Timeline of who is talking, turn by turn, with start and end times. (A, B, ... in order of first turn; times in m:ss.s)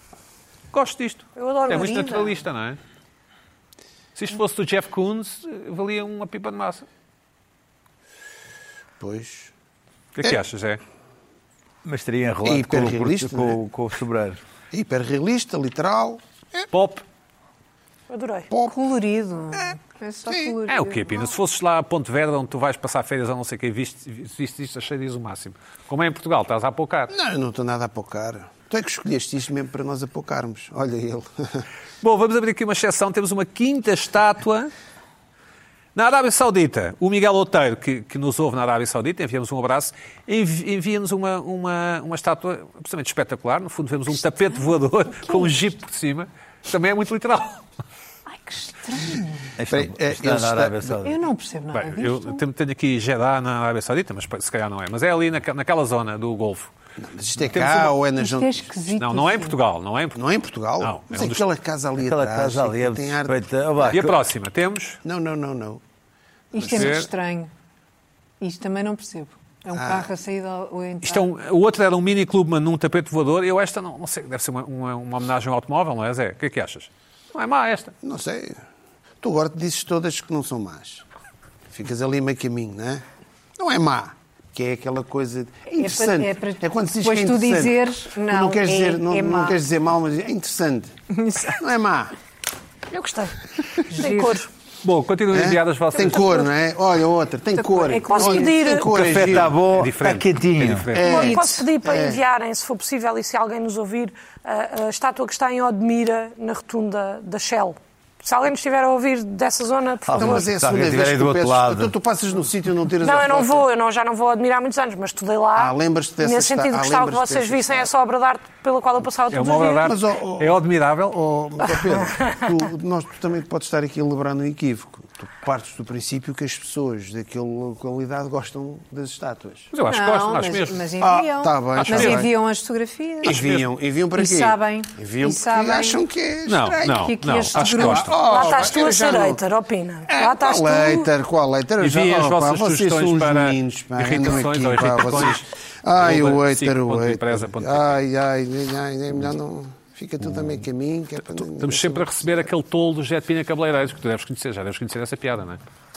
0:00.7-0:02.8 A
0:01.4-0:02.3 B
0:01.7-0:02.2 C
0:04.2-0:06.8 A
0:09.0-0:09.5 D
0:10.1-0:10.8 A
0:11.8-0:14.4 E
0:12.4-0:13.6 D
0:14.7-0:16.6 D
0:16.7-0:17.0 A
0:18.1-0:18.5 B
0:18.5-0:18.8 D
0:18.7-0:21.3 C
0:20.3-0:20.5 D
0:20.7-0:27.1 A
0:27.1-0:31.6 D
0:32.0-0:34.7 A
0:35.9-0:47.6 A
0:44.2-0:45.7 C
0:48.3-0:49.5 C
0:49.6-0:51.2 E
0:49.7-0:51.0 D
0:51.0-0:52.4 C
0:51.7-0:56.7 A
0:57.0-0:58.7 D
0:57.5-0:58.0 A
0:58.2-0:59.6 C
0:59.0-1:00.2 A
1:00.1-1:04.0 D
1:00.8-1:01.4 A
1:02.0-1:04.2 E
1:03.9-1:05.0 A
1:05.0-1:05.8 D
1:06.5-1:07.5 C
1:06.5-1:07.0 D
1:06.6-1:07.1 A
1:08.4-1:11.3 C
1:09.7-1:10.1 D
1:11.0-1:17.9 A
1:18.0-1:18.6 D
1:19.2-1:21.0 D
1:21.7-1:23.0 D
1:23.6-1:30.9 D
1:25.8-1:29.6 C
1:31.2-1:31.6 C
1:31.5-1:32.1 D
1:32.9-1:34.5 B
1:33.9-1:34.4 C
1:34.8-1:36.5 A
1:35.3-1:39.6 D
1:37.5-1:38.8 C
1:38.1-1:38.9 B
1:38.8-1:40.9 E
1:39.1-1:41.1 A
1:40.9-1:42.2 D
1:41.0-1:50.5 B
1:50.1-1:51.9 E
1:50.1-1:53.7 D
1:53.0-1:59.9 B
1:55.5-1:57.9 D
1:59.3-2:01.2 A
1:59.8-2:09.7 D
2:09.7-2:10.8 A
2:09.8-2:13.4 C
2:11.0-2:12.3 D
2:11.8-2:12.3 A
2:13.2-2:19.4 D
2:13.2-2:13.6 A
2:14.1-2:16.0 C
2:16.5-2:18.1 A
2:16.9-2:18.1 C
2:18.2-2:21.1 B
2:20.1-2:32.5 D
2:21.8-2:25.5 A
2:26.0-2:28.0 A
2:31.6-2:35.6 A